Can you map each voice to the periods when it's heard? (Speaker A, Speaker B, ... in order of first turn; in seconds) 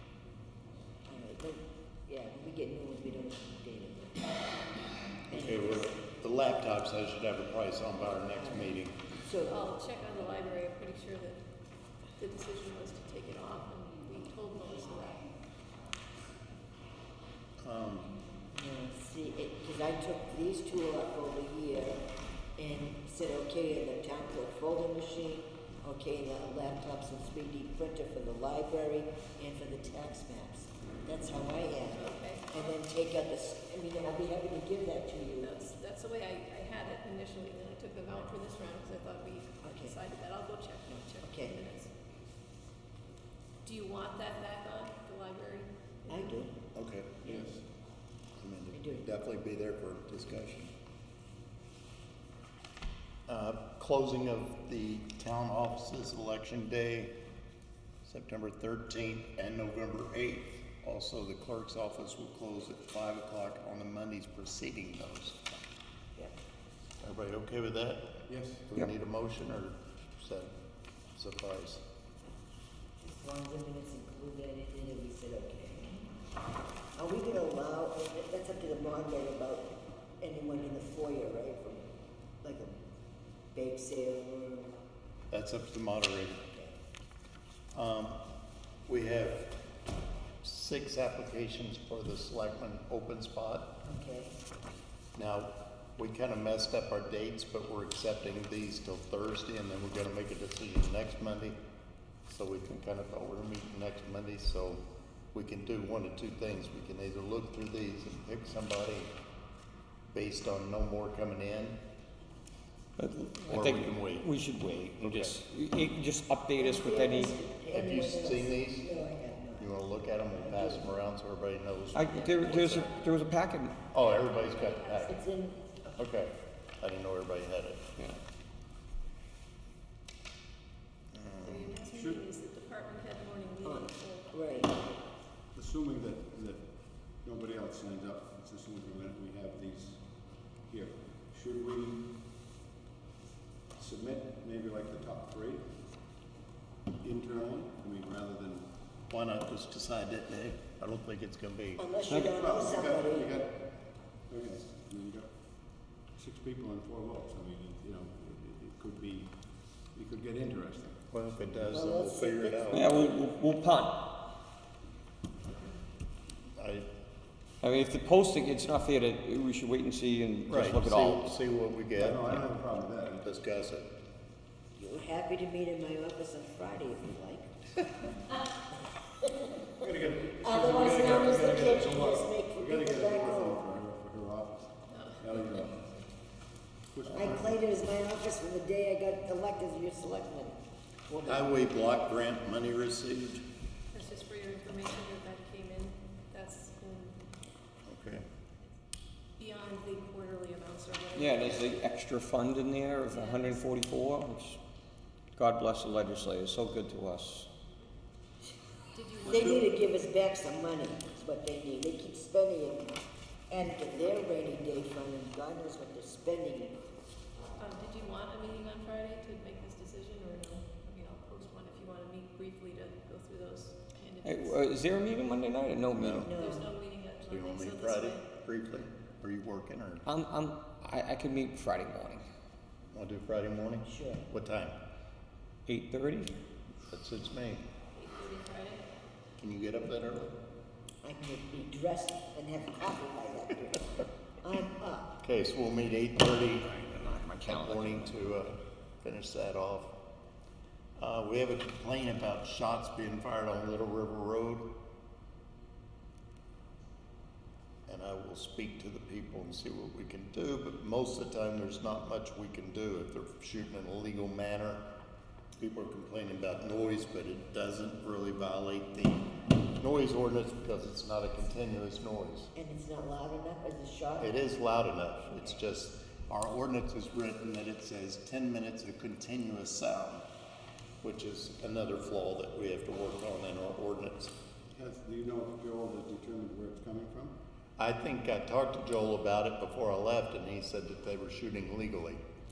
Speaker A: 1.1-4.3, 5.3-5.9, 8.3-9.7, 18.5-22.1, 22.6-35.7, 39.6-40.0, 41.2-41.7, 46.1-46.5, 48.7-49.0, 73.0-76.1, 77.0-81.9, 82.4-82.8, 83.5-84.8, 93.8-94.3, 116.6-119.8, 120.3-120.9, 125.0-126.0, 133.6-134.9, 151.8-153.4, 161.7-162.9, 174.8-177.5, 179.2-179.5, 180.4-183.8, 187.1-191.6, 209.2-213.0, 213.5-216.8, 226.2-226.7, 233.8-234.2, 241.0-245.2, 272.5-274.4, 275.3-275.6
Speaker B: 5.3-9.1, 17.6-18.1, 46.7-47.3, 48.4-50.7, 53.3-57.2, 58.0-65.5, 67.0-70.5, 71.2-71.8, 85.3-86.4, 87.7-88.2, 88.8-89.5, 90.4-93.7, 95.2-101.6, 102.3-109.1, 110.1-111.8, 113.5-114.3, 115.0-115.4, 117.7-118.9, 119.6-122.9, 123.9-125.2, 126.0-127.9, 131.1-131.8, 149.1-151.8, 161.1-162.9, 166.6-166.9, 170.5-172.4, 173.2-173.9, 191.2-193.4, 197.9-198.2, 225.9-226.3, 227.3-230.1, 232.9-234.8, 236.9-237.6, 239.4-240.3, 245.2-246.7, 247.4-249.9, 251.0-254.7, 257.9-264.8, 265.6-272.5, 274.2-280.2, 281.0-284.3, 287.8-292.2
Speaker C: 9.4-11.4, 12.2-15.3, 31.9-32.8, 35.4-41.9, 43.6-45.7, 122.1-123.1, 124.4-125.2, 131.4-134.3, 184.9-186.1, 193.9-197.2, 199.4-201.8, 203.1-203.6, 208.9-209.8, 217.6-224.7, 226.3-228.2, 237.9-238.9
Speaker D: 47.2-47.6, 68.3-68.7, 131.8-132.2, 135.5-140.0, 140.7-142.1, 143.8-145.7, 147.0-148.7, 152.2-153.6, 154.3-155.3, 156.2-159.4, 159.9-161.0, 171.9-173.3, 179.8-185.8, 186.9-187.6, 284.7-287.3
Speaker E: 113.0-117.3, 121.9-123.8, 152.1-152.4, 162.7-164.0, 167.6-171.3, 201.2-204.6, 205.4-207.5, 224.2-226.3, 230.1-232.2, 235.7-236.3, 246.7-248.2